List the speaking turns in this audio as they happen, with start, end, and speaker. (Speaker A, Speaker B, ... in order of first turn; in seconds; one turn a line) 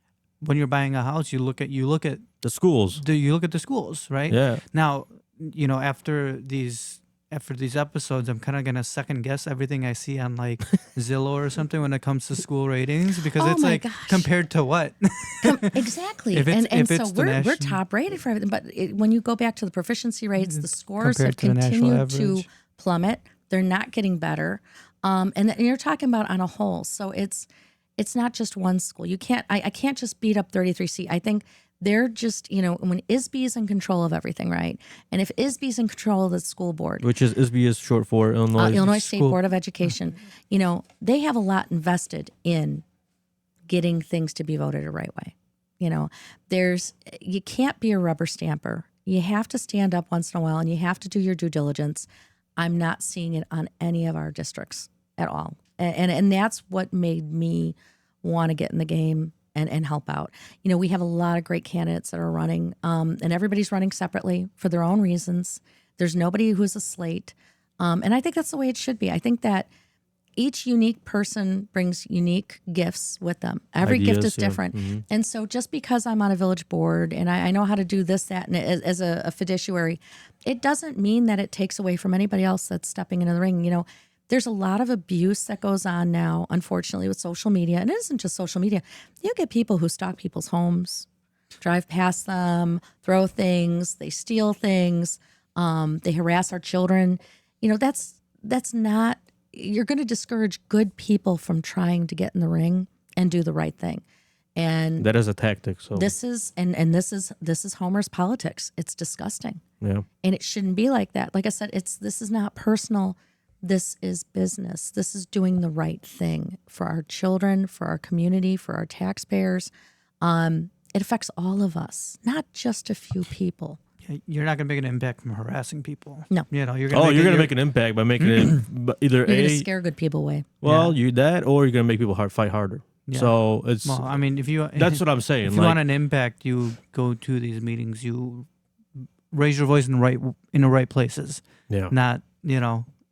Speaker A: 0.4-2.3
Speaker B: 2.4-3.0
Speaker A: 2.9-17.8
Speaker B: 4.3-4.6
Speaker C: 13.3-14.3
Speaker C: 15.4-37.1
Speaker A: 20.4-22.4
Speaker B: 37.0-39.4
Speaker C: 38.6-42.8
Speaker C: 43.7-69.7
Speaker C: 70.4-91.1
Speaker B: 73.8-75.0
Speaker C: 91.6-104.0
Speaker C: 104.5-105.1
Speaker B: 105.0-106.1
Speaker C: 105.9-109.6
Speaker C: 110.2-123.8
Speaker A: 124.0-127.5
Speaker B: 126.9-129.7
Speaker A: 128.2-128.6
Speaker C: 129.2-130.5
Speaker B: 130.6-134.1
Speaker A: 130.6-130.9
Speaker A: 133.1-142.9
Speaker B: 134.7-135.8